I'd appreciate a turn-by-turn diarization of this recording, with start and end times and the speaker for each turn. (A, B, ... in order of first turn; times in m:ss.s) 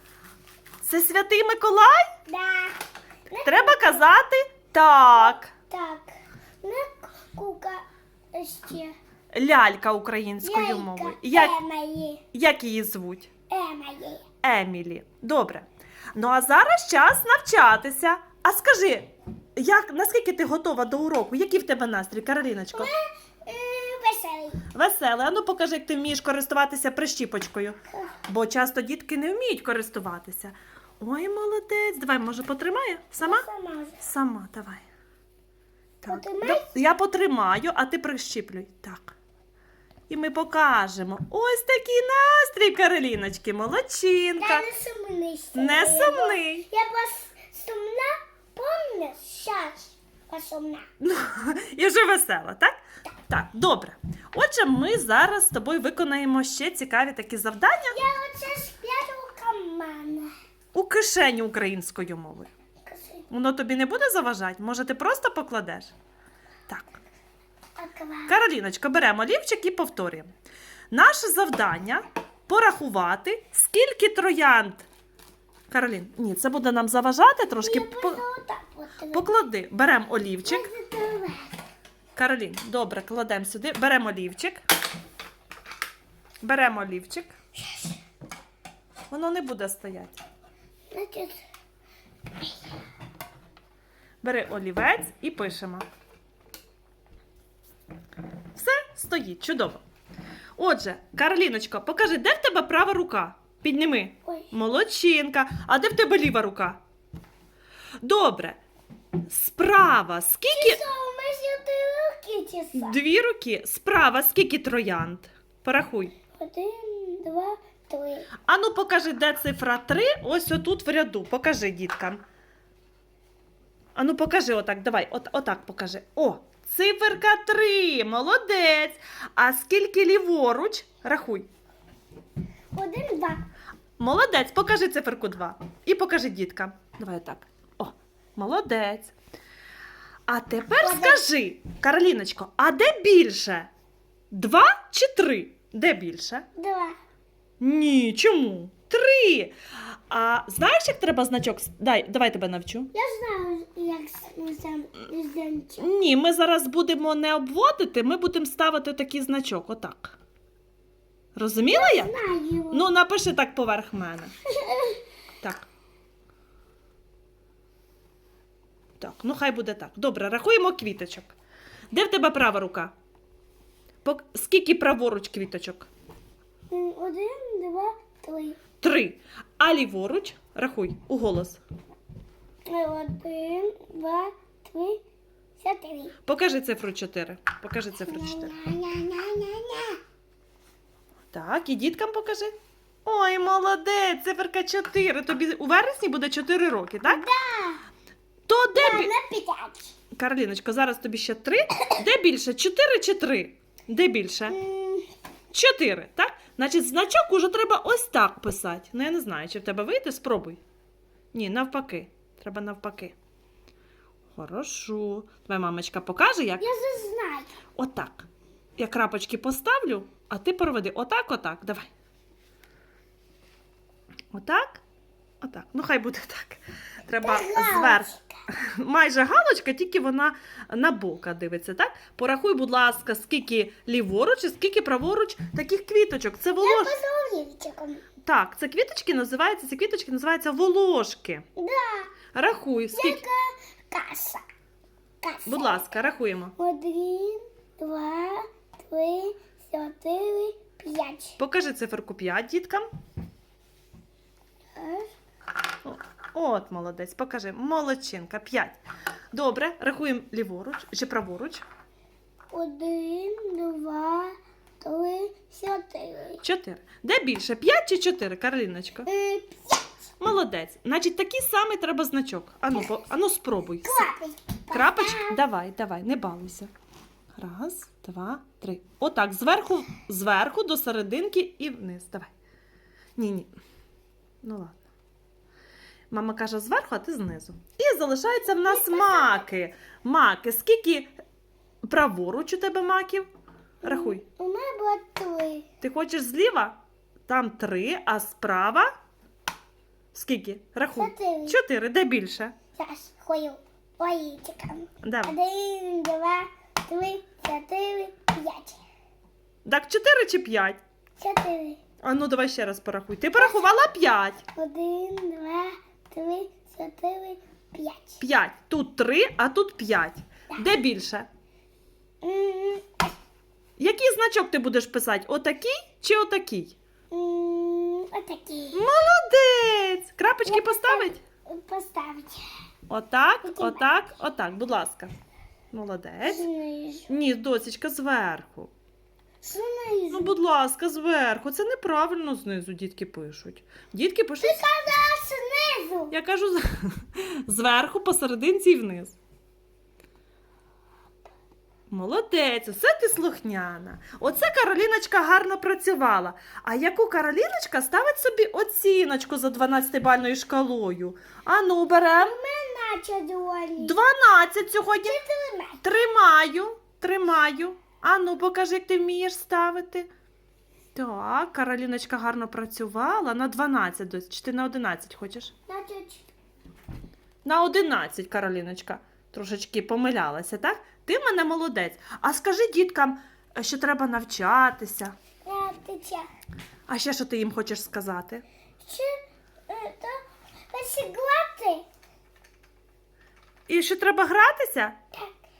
0:00.8-0:02.1 A
0:02.3-0:04.1 B
0:03.4-0:05.5 A
0:05.1-0:09.0 B
0:09.3-0:11.5 A
0:10.4-0:12.2 B
0:12.3-0:13.3 A
0:13.5-0:14.2 B
0:14.4-0:22.9 A
0:22.7-0:24.6 B
0:24.7-0:33.4 A
0:27.9-0:28.2 B
0:33.2-0:34.0 B
0:34.0-0:34.8 A
0:36.0-0:39.2 A
0:36.1-0:36.8 B
0:40.1-0:44.7 A
0:44.4-0:50.8 B
0:45.6-0:46.7 A
0:51.0-0:52.8 A
0:53.3-0:58.0 A
0:57.9-1:00.3 B
1:00.7-1:02.5 A
1:02.8-1:03.3 B
1:03.3-1:05.9 A
1:06.7-1:07.0 A
1:07.8-1:08.4 B
1:08.3-1:10.3 A
1:10.9-1:14.9 A
1:15.7-1:18.2 A
1:17.6-1:19.2 B
1:19.1-1:20.7 A
1:20.4-1:21.6 B
1:22.2-1:24.6 A
1:26.4-1:27.3 A
1:29.1-1:30.2 A
1:30.9-1:31.4 B
1:32.4-1:32.8 B
1:34.2-1:35.8 A
1:38.6-1:39.8 A
1:40.6-1:46.8 A
1:48.0-1:48.6 A
1:49.3-1:50.8 A
1:50.5-1:53.0 B
1:52.8-1:56.2 A
1:56.3-1:58.3 B
1:58.5-2:02.2 A
2:04.0-2:11.5 A
2:12.7-2:13.4 B
2:14.0-2:19.1 A
2:20.3-2:23.7 A
2:20.8-2:21.2 B
2:24.3-2:26.5 A
2:26.6-2:27.0 B
2:27.6-2:29.6 A
2:30.1-2:32.9 A
2:32.9-2:35.9 B
2:35.8-2:40.2 A
2:41.4-2:42.1 A
2:41.6-2:42.9 B
2:42.7-2:44.3 A
2:44.5-2:45.0 B
2:49.0-2:51.3 A
2:51.9-2:52.9 A
2:54.0-2:55.9 A
2:56.7-2:58.6 B
2:58.8-3:01.6 A
3:02.7-3:05.0 B
3:05.6-3:06.1 B
3:06.2-3:08.5 A
3:08.0-3:10.0 B
3:11.3-3:12.5 A
3:13.0-3:17.2 A
3:17.1-3:17.8 B
3:18.5-3:19.1 A
3:18.8-3:19.9 B
3:20.2-3:24.6 A
3:24.5-3:25.1 B
3:25.5-3:30.6 A
3:31.3-3:33.2 A
3:34.4-3:36.6 A
3:36.6-3:37.6 B
3:37.8-3:38.3 A
3:38.8-3:41.9 A
3:44.3-3:44.8 A
3:45.4-3:56.9 A
3:47.2-3:48.4 B
3:56.6-3:58.0 B
3:58.2-4:01.4 A
4:01.6-4:02.1 B
4:02.3-4:03.2 A
4:02.9-4:04.4 B
4:05.2-4:05.8 B
4:05.5-4:06.5 A
4:06.6-4:11.4 B
4:11.4-4:12.9 A
4:14.8-4:15.1 B
4:15.8-4:18.8 A
4:19.3-4:21.6 A
4:22.5-4:26.4 B
4:26.4-4:29.1 A
4:29.1-4:29.9 B
4:30.2-4:34.1 A
4:33.8-4:35.4 B
4:34.7-4:36.7 A
4:37.3-4:42.3 A
4:43.2-4:43.5 A
4:44.4-4:44.8 A
4:46.1-4:51.1 A
4:48.4-4:49.5 B
4:51.8-4:53.3 A
4:53.8-4:54.2 A
4:53.8-4:55.7 B
4:55.8-4:58.9 A
5:00.1-5:02.6 A
5:00.9-5:01.6 B
5:02.8-5:08.8 B
5:05.0-5:05.3 A
5:09.6-5:10.8 A
5:11.2-5:11.8 B
5:12.0-5:14.4 A
5:13.4-5:13.7 B
5:14.5-5:18.2 B
5:18.2-5:21.3 A
5:22.2-5:23.1 B
5:23.8-5:26.8 A
5:27.1-5:28.8 B
5:28.7-5:31.2 A
5:30.4-5:32.5 B
5:32.9-5:35.1 A
5:33.4-5:33.8 B
5:35.7-5:36.4 A
5:36.2-5:37.1 B
5:37.1-5:38.7 A
5:39.4-5:40.4 B
5:40.1-5:44.6 A
5:44.4-5:46.1 B
5:46.1-5:49.2 A
5:51.9-6:02.4 A
6:02.2-6:04.0 B
6:03.8-6:05.2 A
6:05.0-6:05.8 B
6:05.8-6:10.1 A
6:10.9-6:15.5 A
6:15.7-6:16.3 B
6:17.4-6:25.1 A
6:25.4-6:26.3 B
6:26.9-6:28.4 A
6:28.8-6:29.2 B
6:29.7-6:31.8 B
6:33.7-6:35.0 A